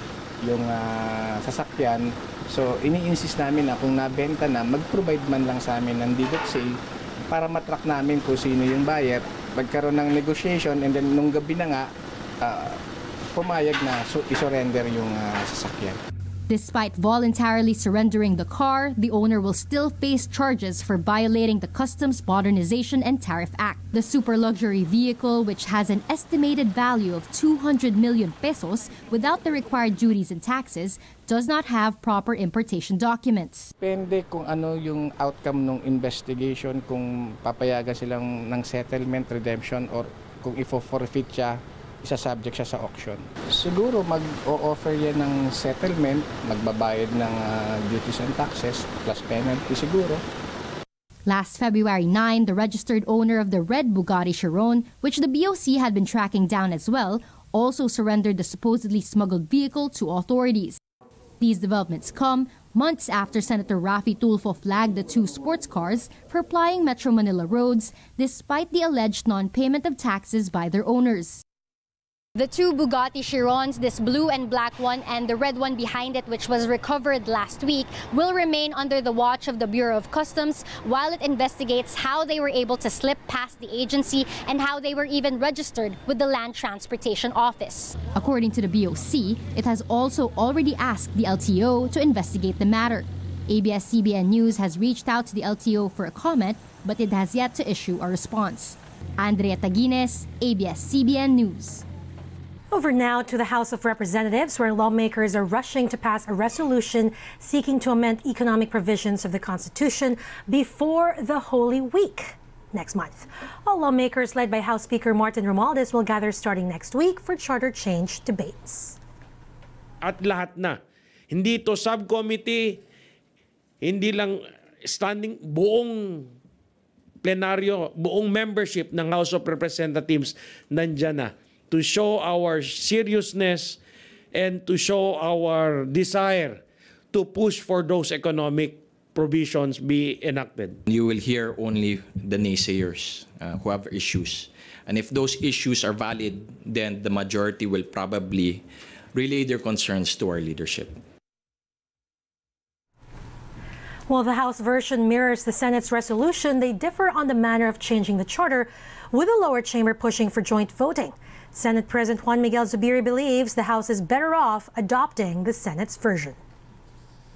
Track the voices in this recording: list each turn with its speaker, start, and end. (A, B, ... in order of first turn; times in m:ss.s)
0:00.4-0:06.8 A
0:07.3-0:11.9 A
0:12.4-0:12.8 A
0:13.3-0:16.0 A
0:16.5-0:33.7 B
0:33.8-0:50.2 A
0:51.3-1:00.8 B
1:01.4-1:11.4 B
1:12.4-1:41.8 B
1:42.7-1:59.0 C
2:00.0-2:00.8 D
2:01.3-2:02.8 D
2:03.8-2:06.3 D
2:07.2-2:13.8 D
2:14.3-2:16.6 D
2:17.1-2:20.8 D
2:20.9-2:28.6 E
2:29.1-2:31.0 E
2:34.1-2:46.4 C